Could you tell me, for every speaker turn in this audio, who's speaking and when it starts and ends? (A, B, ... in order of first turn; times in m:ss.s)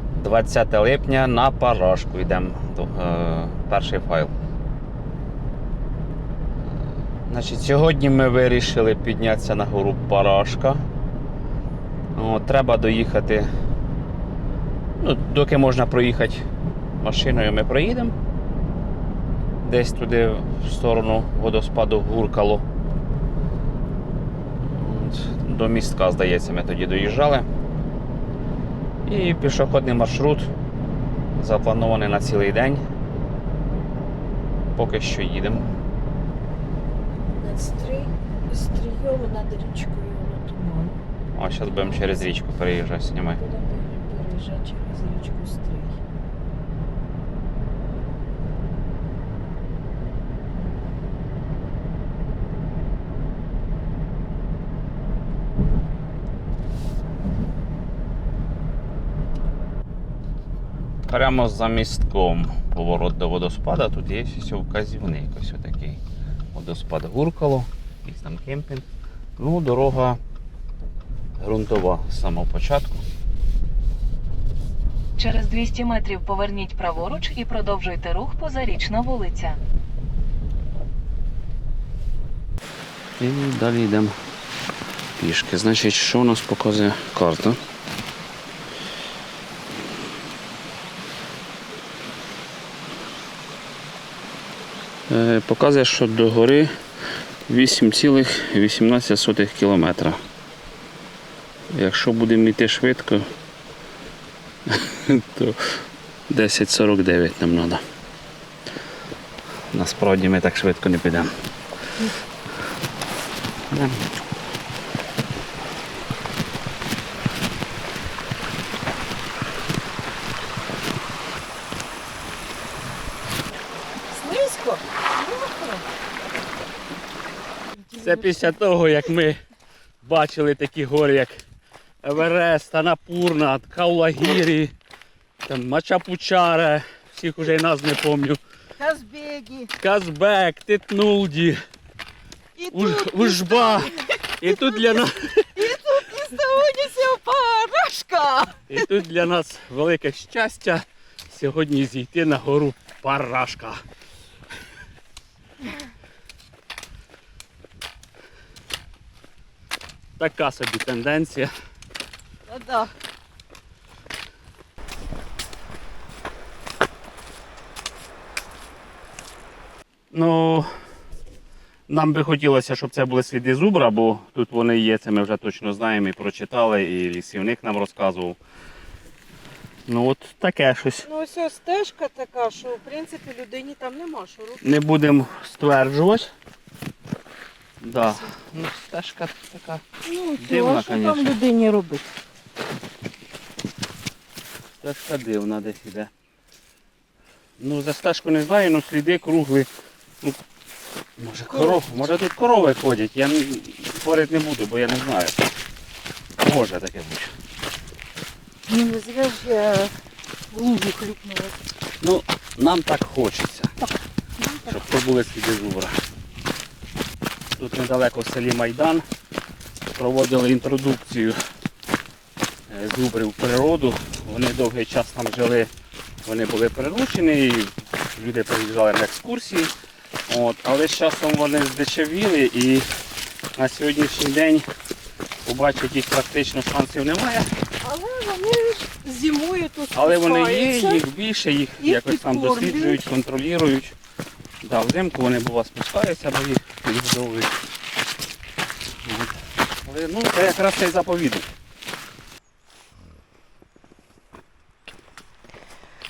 0:00.2-0:04.3 A
0:06.6-0:10.8 A
0:12.1-0:13.5 A
0:15.0-0:16.4 A
0:17.0-0:18.2 A
0:19.6-0:22.6 A
0:24.7-0:27.5 A
0:29.1-0:30.5 A
0:31.4-0:32.8 A
0:34.8-0:35.7 A
0:37.3-0:41.0 B
0:41.4-0:43.4 A
0:43.4-0:46.0 B
1:01.1-1:06.0 A
1:06.5-1:08.9 A
1:09.4-1:10.2 A
1:11.4-1:13.0 A
1:15.2-1:19.6 C
1:23.2-1:24.2 A
1:25.2-1:27.6 A
1:35.1-1:36.7 A
1:37.5-1:40.2 A
1:41.7-1:43.3 A
1:44.7-1:45.6 A
1:46.3-1:47.8 A
1:49.7-1:51.3 A
1:53.7-1:54.1 A
2:04.1-2:05.9 B
2:07.7-2:08.6 B
2:08.0-2:09.4 A
2:10.0-2:11.4 A
2:12.0-2:14.8 A
2:15.5-2:18.4 A
2:18.8-2:19.7 B
2:19.8-2:21.6 A
2:22.6-2:28.9 B
2:22.7-2:25.6 A
2:28.7-2:33.8 A
2:40.2-2:41.5 A
2:42.5-2:42.9 B
2:50.1-2:50.7 A
2:51.9-2:58.4 A
2:59.9-3:01.1 A
3:01.0-3:04.6 B
3:04.6-3:06.3 A
3:07.8-3:09.8 A
3:10.0-3:12.1 B
3:10.4-3:11.4 A
3:14.8-3:16.1 A
3:17.6-3:20.4 A
3:21.2-3:25.4 A
3:21.5-3:21.8 B
3:26.4-3:27.3 A
3:28.7-3:30.0 B
3:30.5-3:31.6 B
3:32.0-3:33.8 A
3:34.4-3:34.8 B
3:34.6-3:36.0 A
3:37.6-3:39.0 A
3:40.0-3:41.4 A
3:42.7-3:45.7 A
3:46.2-3:49.7 A
3:50.3-3:52.9 A
3:53.5-3:54.7 A
3:55.4-3:57.5 A
3:57.8-4:01.0 B
3:59.9-4:04.0 A
4:01.8-4:03.1 B
4:04.6-4:07.6 A
4:09.0-4:11.5 A